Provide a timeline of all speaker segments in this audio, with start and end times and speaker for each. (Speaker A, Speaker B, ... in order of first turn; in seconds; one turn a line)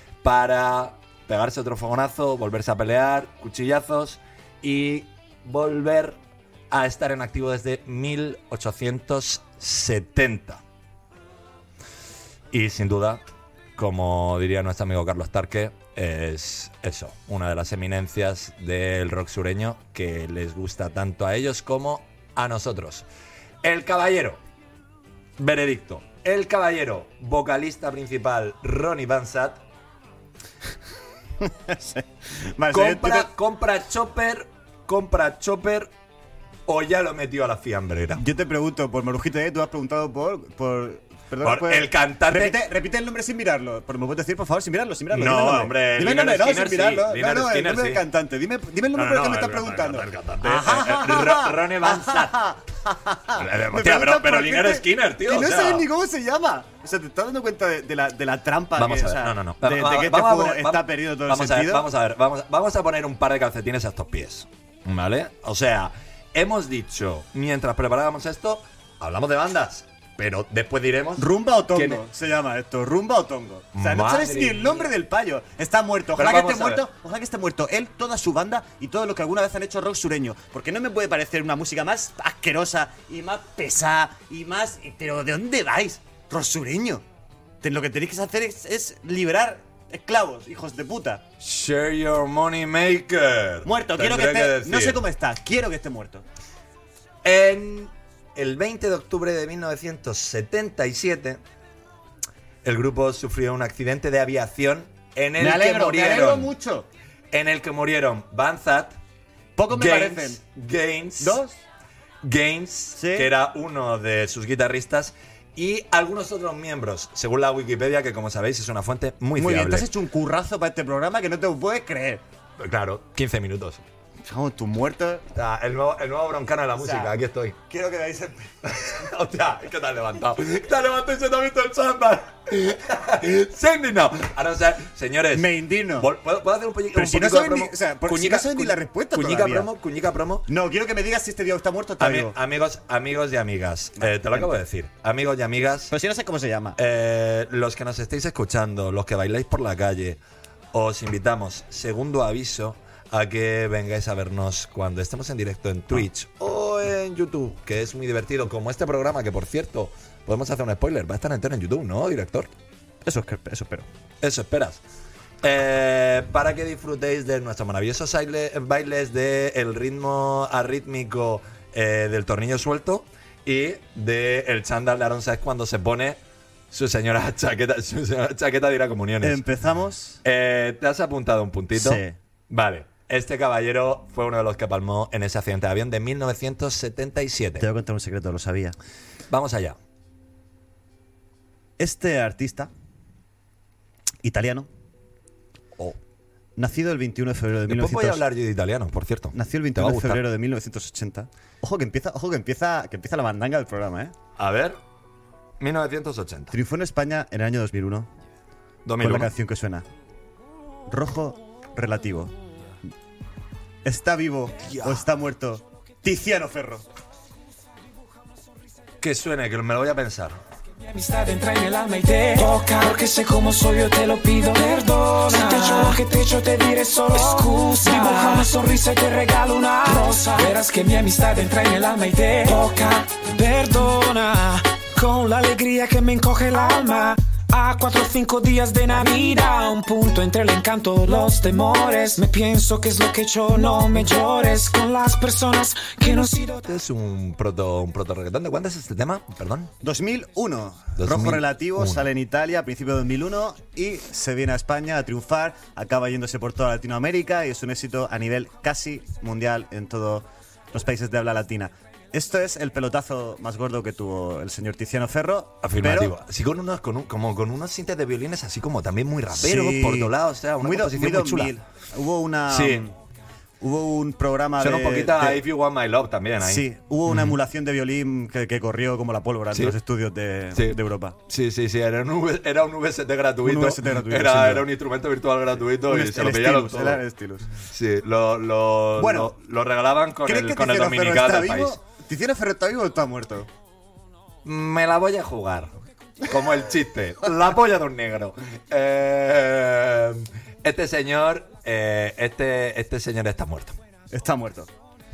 Speaker A: 0.2-6.2
Speaker A: 6.7-10.6
Speaker A: 12.5-13.2
Speaker A: 13.8-23.1
Speaker A: 23.6-24.4
Speaker A: 25.4-29.6
Speaker B: 31.4-33.3
Speaker A: 32.7-35.9
Speaker A: 36.7-38.2
Speaker B: 38.2-61.8
Speaker A: 41.4-42.6
Speaker A: 45.1-48.0
Speaker A: 48.9-52.4
Speaker A: 53.4-55.9
Speaker A: 58.7-72.0
Speaker B: 71.2-87.0
Speaker A: 73.7-74.9
Speaker A: 76.1-76.8
Speaker B: 87.6-91.2
Speaker A: 91.4-95.0
Speaker B: 93.6-96.2
Speaker A: 97.2-101.4
Speaker A: 102.6-106.5
Speaker B: 105.4-106.9
Speaker A: 107.3-109.0
Speaker B: 109.6-110.4
Speaker A: 109.7-111.4
Speaker B: 111.2-111.5
Speaker A: 112.2-119.9
Speaker B: 113.0-113.3
Speaker B: 119.4-122.2
Speaker A: 122.6-123.8
Speaker B: 124.2-125.2
Speaker A: 125.3-127.6
Speaker B: 126.8-127.1
Speaker B: 127.7-128.5
Speaker A: 128.6-140.5
Speaker B: 135.3-136.1
Speaker B: 136.9-139.7
Speaker B: 140.5-142.3
Speaker A: 142.0-145.9
Speaker B: 144.0-144.5
Speaker B: 145.9-146.8
Speaker A: 146.8-150.2
Speaker A: 150.7-162.5
Speaker B: 163.1-163.8
Speaker A: 164.2-164.8
Speaker A: 165.4-176.2
Speaker A: 176.7-179.4
Speaker B: 179.2-180.2
Speaker A: 180.2-187.7
Speaker B: 181.7-182.2
Speaker B: 187.6-188.7
Speaker A: 189.3-189.8
Speaker B: 191.8-192.7
Speaker B: 194.2-194.7
Speaker B: 196.6-198.2
Speaker A: 197.7-200.2
Speaker B: 199.3-204.1
Speaker A: 204.4-204.8
Speaker A: 205.6-206.5
Speaker B: 206.5-208.1
Speaker A: 208.8-209.3
Speaker B: 209.0-209.8
Speaker B: 210.9-212.3
Speaker B: 213.8-216.8
Speaker A: 214.7-215.1
Speaker A: 219.0-220.4
Speaker C: 220.8-246.6
Speaker A: 246.6-249.7
Speaker B: 249.8-266.1
Speaker A: 251.0-252.1
Speaker A: 265.6-271.6
Speaker B: 269.3-272.9
Speaker A: 272.5-272.9
Speaker B: 273.6-275.4
Speaker A: 274.6-277.4
Speaker B: 276.4-281.2
Speaker A: 279.5-279.8
Speaker A: 280.5-291.8
Speaker B: 283.4-284.7
Speaker B: 285.8-287.5
Speaker B: 289.0-289.3
Speaker B: 290.2-293.5
Speaker A: 294.4-303.8
Speaker B: 304.1-304.7